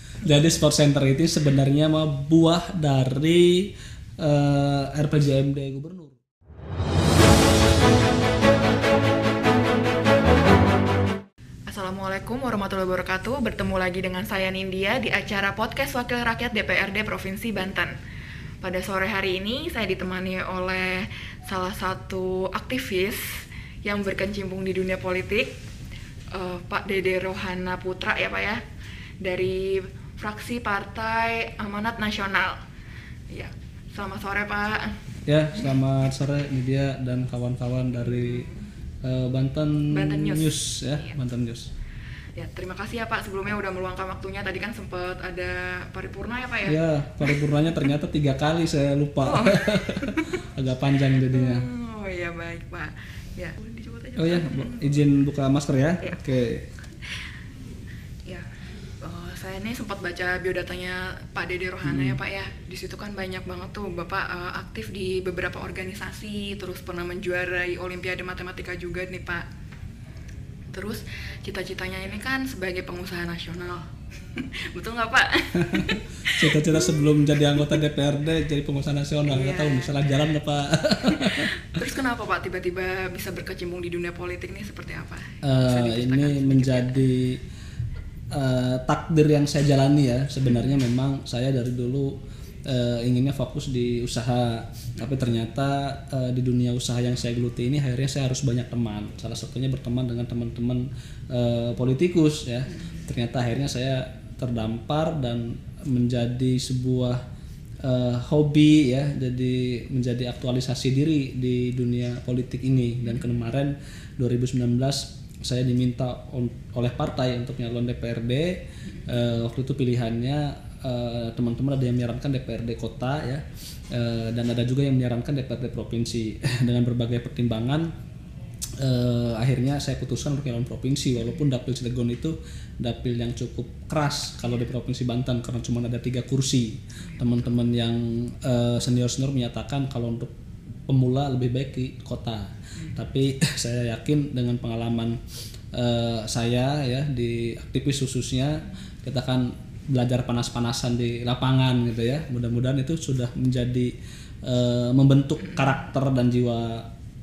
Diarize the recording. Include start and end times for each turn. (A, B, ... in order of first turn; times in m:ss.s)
0:00.2-0:06.2 A
0:11.7-0:17.9 B
0:18.6-0:25.5 B
0:26.3-0:28.6 B
0:29.2-0:32.6 B
0:33.3-0:35.0 B
0:35.2-0:38.5 A
0:38.0-0:38.7 B
0:39.0-0:41.7 A
0:39.9-0:41.2 B
0:42.4-0:47.9 B
0:46.6-0:51.6 A
0:49.2-0:50.4 B
0:51.2-0:55.0 B
0:54.2-0:56.6 A
0:57.0-0:57.3 B
0:58.3-1:09.4 B
1:01.8-1:02.2 A
1:10.7-1:16.9 B
1:15.6-1:21.7 A
1:19.2-1:20.0 B
1:21.0-1:27.0 B
1:25.4-1:27.4 A
1:28.3-1:47.2 A
1:47.8-2:07.9 A
2:08.8-2:20.3 A
2:17.0-2:17.3 B
2:20.9-2:25.2 A
2:25.7-2:33.9 A
2:34.4-2:36.8 A